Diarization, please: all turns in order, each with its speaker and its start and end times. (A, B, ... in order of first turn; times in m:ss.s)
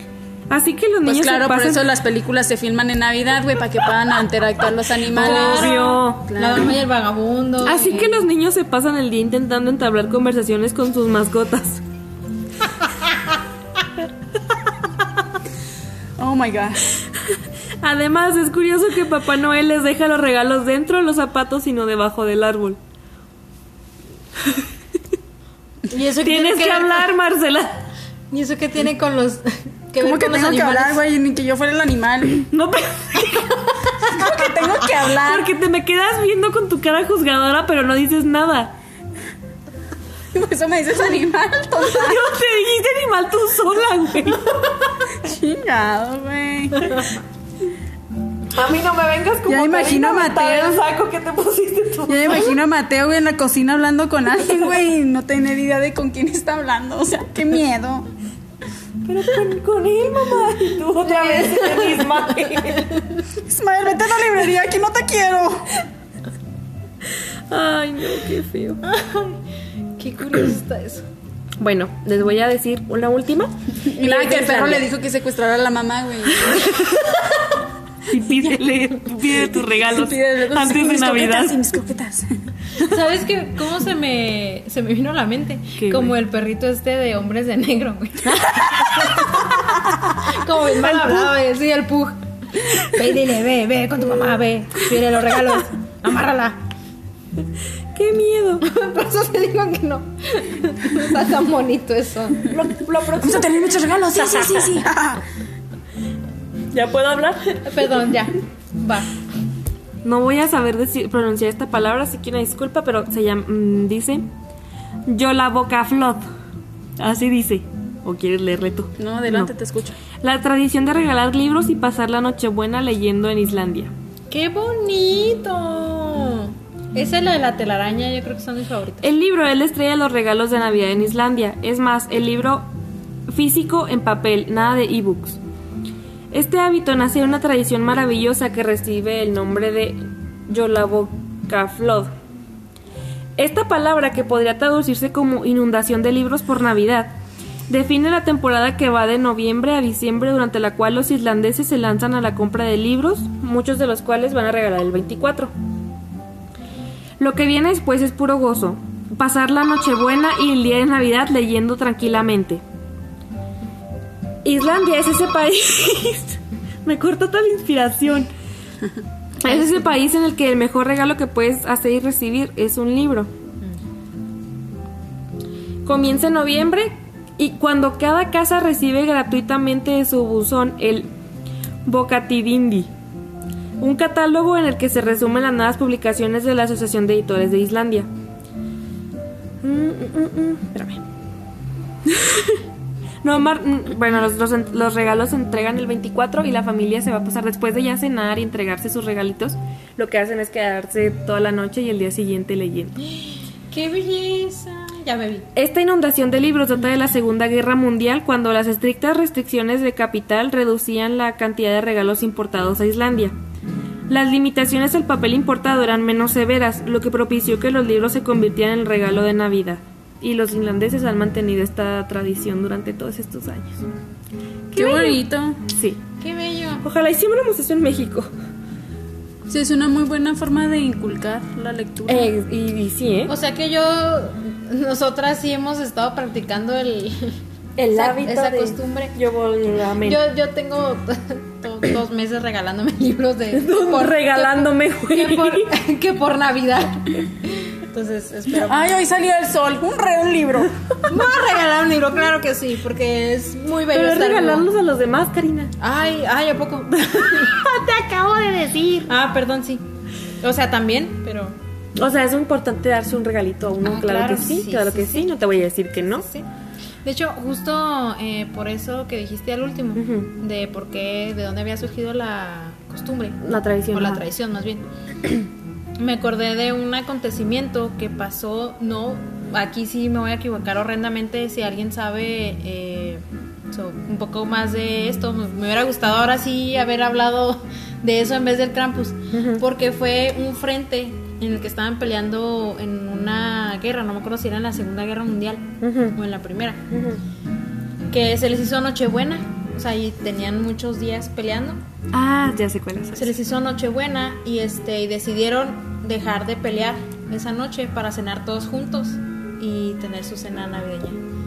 0:00.5-0:01.9 A
0:01.0-0:06.7 B
0:05.1-0:06.3 A
0:05.1-0:08.1 C
0:07.6-0:11.8 A
0:16.2-0:17.0 B
0:17.8-0:22.8 A
0:25.9-0:27.1 C
0:26.2-0:27.8 A
0:28.3-0:31.0 C
0:30.0-0:32.5 B
0:32.4-0:34.4 A
0:34.0-0:35.5 B
0:35.0-0:38.7 A
0:40.3-0:42.3 B
0:41.8-0:44.7 A
0:45.2-0:47.1 B
0:48.5-0:52.5 A
0:49.5-0:50.8 B
0:52.1-0:58.1 B
0:59.0-1:03.0 A
1:01.0-1:02.2 C
1:03.4-1:05.7 B
1:07.5-1:08.8 A
1:08.8-1:09.4 C
1:10.0-1:11.0 C
1:11.6-1:14.9 A
1:13.8-1:16.7 B
1:16.4-1:17.1 A
1:18.1-1:21.6 A
1:19.2-1:22.4 B
1:22.8-1:36.6 C
1:25.8-1:26.1 A
1:28.2-1:29.2 A
1:30.8-1:31.2 A
1:37.9-1:38.6 A
1:38.6-1:42.6 C
1:42.5-1:44.8 A
1:43.2-1:45.2 B
1:46.7-1:47.8 A
1:47.6-1:49.1 C
1:50.0-1:54.3 A
1:55.0-1:56.2 A
1:57.0-1:59.5 A
1:59.0-2:00.0 B
2:00.2-2:03.9 A
2:04.3-2:09.1 C
2:09.0-2:12.7 A
2:13.3-2:15.4 A
2:16.3-2:22.1 A
2:23.4-2:27.2 A
2:27.7-2:35.5 A
2:37.2-2:42.6 A
2:44.4-2:48.3 A
2:49.4-2:53.3 A
2:55.8-3:01.1 A
3:01.8-3:02.9 A
3:03.8-3:08.1 A
3:09.6-3:11.0 A
3:12.0-3:12.6 A
3:13.2-3:23.0 A
3:23.1-3:25.5 C
3:25.5-3:33.4 A
3:34.1-3:43.8 A
3:44.7-3:46.0 A
3:44.7-3:45.6 B
3:46.2-3:46.8 C
3:46.8-3:48.3 A
3:49.5-3:52.3 B
3:52.1-3:53.3 A
3:53.3-3:57.4 C
3:57.8-4:00.2 A
3:57.9-3:59.2 C
4:00.0-4:08.9 C
4:03.5-4:05.7 A
4:08.6-4:10.7 B
4:11.0-4:14.7 C
4:13.9-4:15.7 A
4:15.8-4:19.8 C
4:17.8-4:19.1 A
4:20.4-4:21.6 C
4:22.0-4:26.2 A
4:23.8-4:26.4 C
4:27.0-4:56.8 C
4:30.0-4:30.3 A
4:33.4-4:34.2 A
4:49.3-4:49.6 A
4:55.8-4:56.2 A
4:56.9-4:57.2 A
4:58.1-5:01.8 C
5:02.1-5:03.3 A
5:03.2-5:11.2 C